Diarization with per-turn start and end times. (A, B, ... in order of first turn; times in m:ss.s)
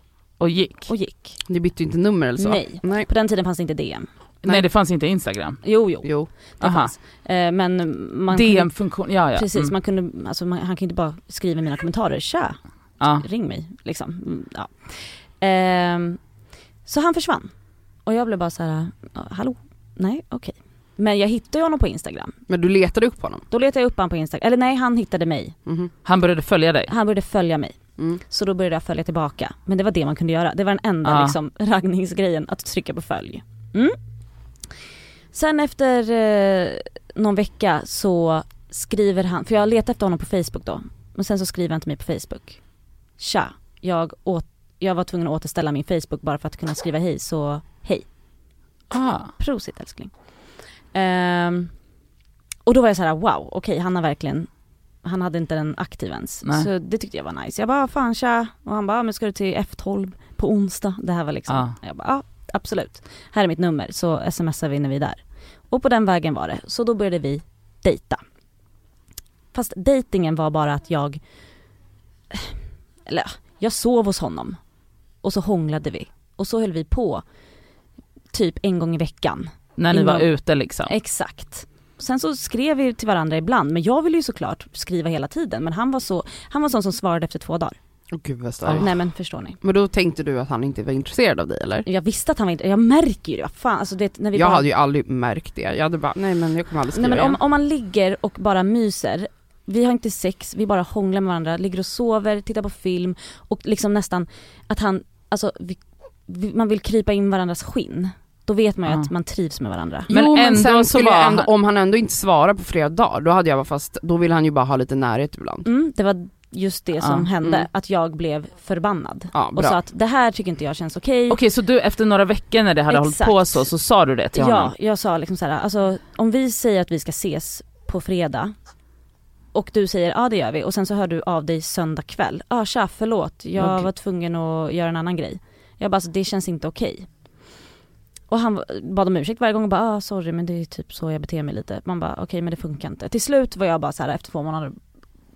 0:00.4-0:00.9 A
0:00.9-0:01.4 B
0:01.5-0:03.1 C
0:02.4-0:04.1 B
0:04.4-0:05.6 A
0:05.6-0:08.7 B
0:06.0-0:06.3 C
0:06.6-0:06.9 A
0:08.3-0:09.7 A
0:09.3-0:16.2 B
0:16.9-0:17.5 B
0:18.1-0:22.4 B
0:22.5-0:23.5 C
0:23.5-0:25.6 B
0:25.7-0:25.9 C
0:26.0-0:26.9 A
0:26.9-0:34.0 B
0:31.0-0:31.4 A
0:35.3-0:42.6 B
0:43.2-0:48.1 B
0:48.9-0:49.3 A
0:49.4-0:50.1 B
0:50.9-0:51.7 B
0:52.7-0:54.5 B
0:55.0-1:05.2 B
1:01.5-1:01.8 A
1:05.7-1:08.2 B
1:09.5-1:11.2 B
1:13.1-1:14.6 B
1:15.2-1:17.2 B
1:18.3-1:20.3 B
1:19.8-1:20.9 A
1:20.9-1:27.8 B
1:28.1-1:29.0 C
1:28.8-1:29.6 B
1:29.6-1:31.9 C
1:31.9-1:34.6 B
1:34.3-1:37.4 C
1:36.9-1:50.1 B
1:50.1-1:55.7 C
1:50.1-1:51.5 A
1:55.6-2:01.4 B
1:57.0-1:57.3 A
1:59.3-1:59.8 C
2:01.3-2:04.7 A
2:02.9-2:03.7 B
2:04.3-2:08.5 B
2:09.5-2:17.1 B
2:13.6-2:13.9 A
2:18.3-2:24.8 B